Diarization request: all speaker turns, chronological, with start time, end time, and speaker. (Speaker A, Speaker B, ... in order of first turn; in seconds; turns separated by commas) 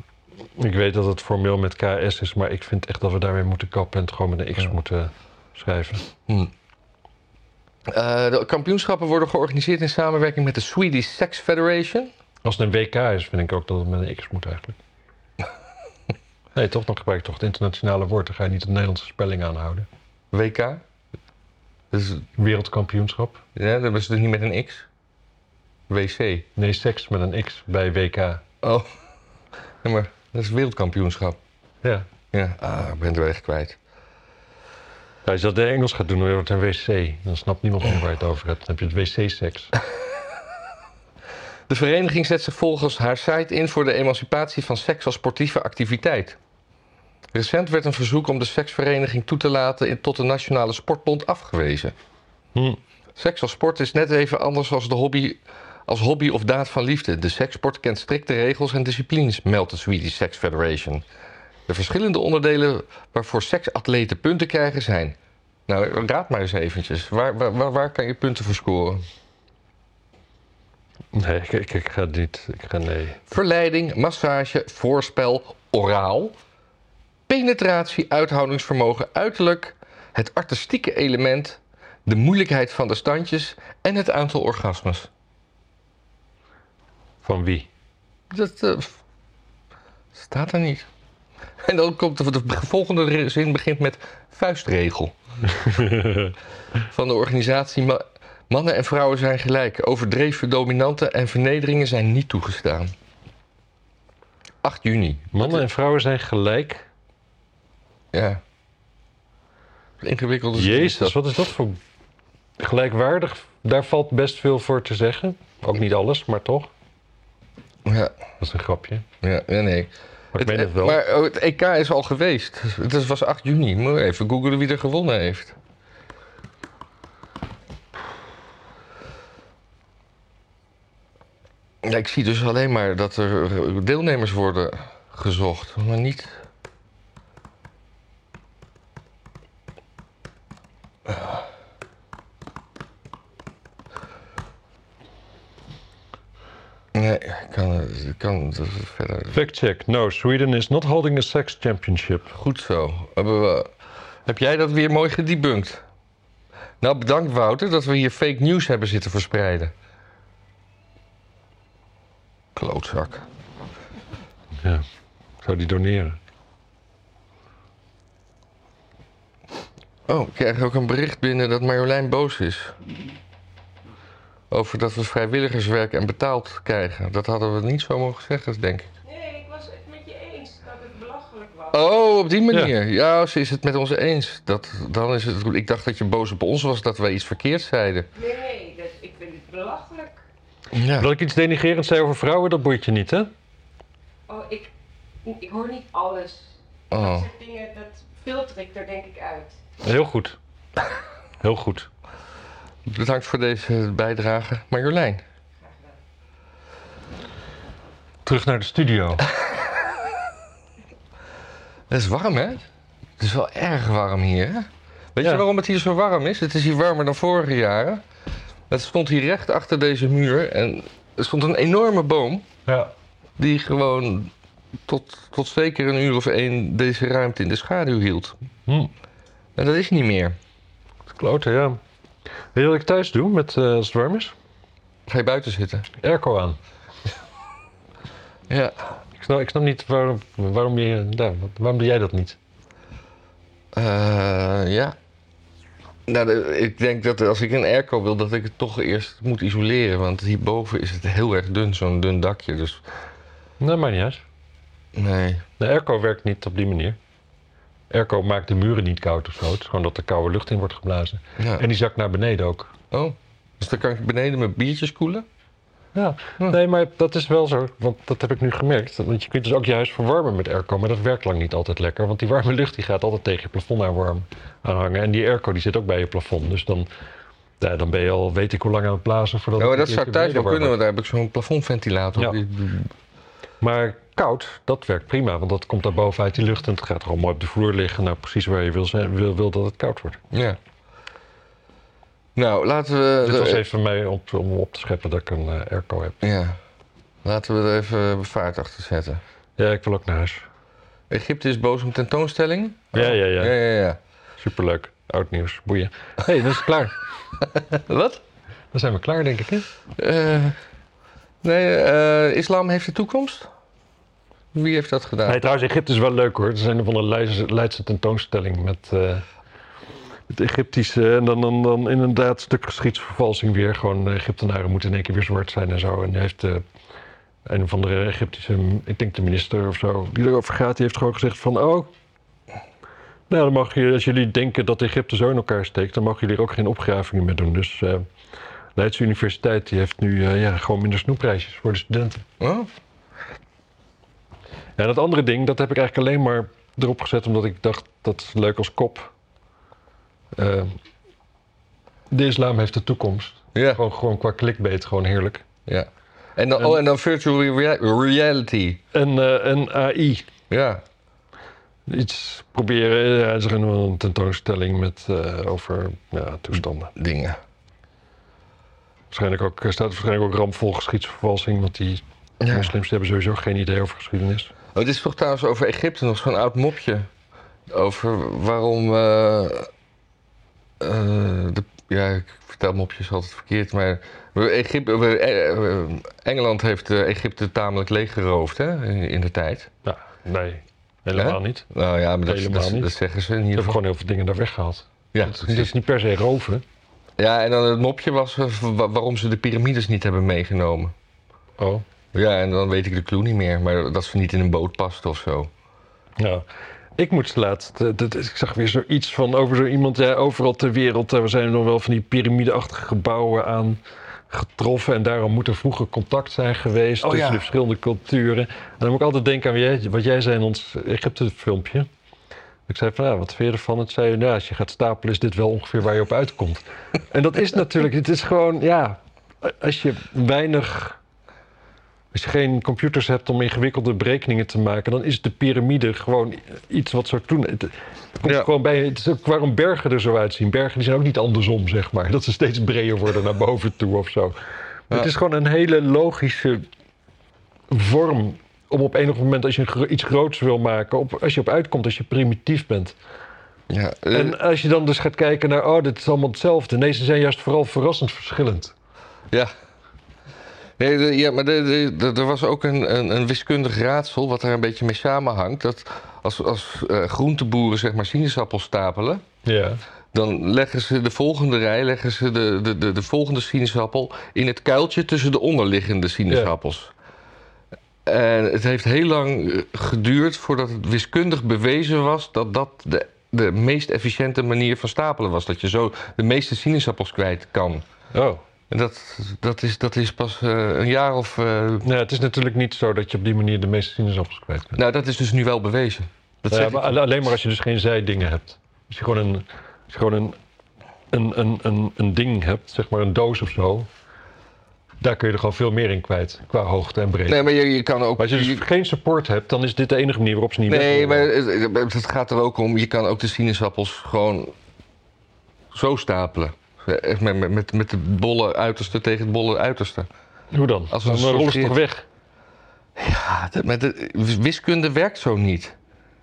Speaker A: 0.6-6.1, Speaker B: 6.3-6.5, Speaker B: 7.9-12.1, Speaker A: 12.4-14.8, Speaker A: 16.6-19.9, Speaker B: 20.3-20.8, Speaker B: 21.9-22.3, Speaker A: 22.4-23.4, Speaker B: 23.6-24.9, Speaker B: 25.9-26.5, Speaker A: 26.6-28.4, Speaker B: 28.6-28.9, Speaker B: 29.8-31.4, Speaker B: 32.3-33.8, Speaker A: 35.2-39.7, Speaker B: 41.7-46.4, Speaker B: 47.3-51.9, Speaker B: 53.2-61.0, Speaker B: 61.7-65.2, Speaker B: 65.7-69.0, Speaker A: 71.1-73.3, Speaker B: 73.3-76.4, Speaker B: 77.3-85.1, Speaker A: 87.2-87.7, Speaker B: 88.3-89.0, Speaker B: 90.1-90.9, Speaker B: 91.6-95.2, Speaker A: 95.5-96.3, Speaker B: 96.9-102.9, Speaker B: 104.6-105.6, Speaker A: 105.3-106.9, Speaker B: 108.1-108.4, Speaker B: 110.0-111.2, Speaker A: 110.5-111.8, Speaker A: 112.6-116.7, Speaker B: 117.8-118.1, Speaker A: 118.4-119.1, Speaker B: 119.2-125.6, Speaker A: 120.3-121.0, Speaker B: 131.8-136.4, Speaker B: 146.9-149.4, Speaker A: 149.3-152.3, Speaker B: 152.3-153.7, Speaker B: 154.3-155.8, Speaker B: 156.8-159.7, Speaker B: 162.6-163.3, Speaker A: 165.4-166.2, Speaker B: 170.1-172.8, Speaker B: 174.5-178.9, Speaker C: 179.1-182.0, Speaker B: 181.7-188.1, Speaker C: 188.2-190.2, Speaker B: 190.7-191.1, Speaker A: 191.0-193.3, Speaker C: 194.3-194.7, Speaker C: 195.2-199.6, Speaker B: 196.9-197.3, Speaker A: 199.8-200.4, Speaker A: 201.4-201.9, Speaker B: 202.9-205.2, Speaker A: 208.2-209.3, Speaker B: 211.9-212.7, Speaker B: 213.2-218.0, Speaker B: 218.7-222.5, Speaker A: 222.7-222.9, Speaker B: 223.4-224.3, Speaker B: 224.9-228.4, Speaker B: 229.6-230.4, Speaker A: 231.1-231.8, Speaker A: 232.5-234.3, Speaker B: 235.1-235.9, Speaker A: 236.0-236.6, Speaker B: 238.5-238.8, Speaker A: 239.2-242.4, Speaker B: 243.7-245.0, Speaker B: 246.1-252.8, Speaker A: 253.6-254.2, Speaker B: 254.9-255.4, Speaker A: 255.6-257.0, Speaker A: 257.9-262.7, Speaker B: 261.4-261.6, Speaker B: 262.9-265.3, Speaker A: 265.9-276.9, Speaker A: 277.6-280.8, Speaker B: 279.6-282.9, Speaker A: 283.6-290.2, Speaker B: 290.3-290.6, Speaker B: 292.4-293.6, Speaker A: 293.2-296.2, Speaker B: 296.2-296.6, Speaker B: 297.2-299.2, Speaker A: 299.6-300.5, Speaker B: 301.1-304.0, Speaker A: 302.9-303.6, Speaker A: 304.4-306.9, Speaker B: 307.4-308.2, Speaker A: 308.7-309.7, Speaker B: 310.0-310.6, Speaker B: 311.4-313.5, Speaker B: 314.5-315.4, Speaker A: 315.3-319.3, Speaker A: 320.3-326.6, Speaker A: 327.5-331.9, Speaker A: 333.3-338.1, Speaker A: 338.8-342.3, Speaker B: 342.4-342.7, Speaker A: 344.8-349.1, Speaker A: 350.4-350.8, Speaker A: 352.1-355.5, Speaker B: 353.6-353.8, Speaker B: 355.7-358.8, Speaker A: 358.9-360.3, Speaker B: 360.5-360.8, Speaker A: 361.9-366.9, Speaker B: 367.0-367.4, Speaker A: 369.1-374.5, Speaker B: 372.4-372.7, Speaker B: 374.8-377.1, Speaker B: 377.7-379.7, Speaker B: 380.8-389.7, Speaker A: 389.9-391.7, Speaker B: 391.1-393.8, Speaker A: 392.3-392.9, Speaker A: 393.6-396.6, Speaker B: 395.1-395.7, Speaker B: 397.2-400.9, Speaker A: 401.6-401.9, Speaker B: 402.1-405.5, Speaker A: 406.2-406.4, Speaker A: 407.0-421.9, Speaker B: 417.0-417.5, Speaker A: 422.7-431.0, Speaker A: 432.1-444.4, Speaker B: 438.2-438.5, Speaker A: 444.9-446.7, Speaker A: 447.7-452.9, Speaker B: 453.7-454.4, Speaker A: 454.1-458.7, Speaker B: 460.8-469.2, Speaker A: 469.4-469.8, Speaker B: 470.1-476.9, Speaker B: 478.1-487.9, Speaker A: 488.1-488.4, Speaker B: 488.7-491.9, Speaker A: 491.8-494.8, Speaker B: 494.8-496.9, Speaker A: 496.5-500.4, Speaker A: 501.1-503.9, Speaker A: 505.0-507.5, Speaker B: 507.3-508.6, Speaker A: 508.2-511.3, Speaker B: 510.7-514.5, Speaker B: 515.7-520.1, Speaker A: 520.5-522.0, Speaker B: 520.9-521.8, Speaker B: 523.0-525.8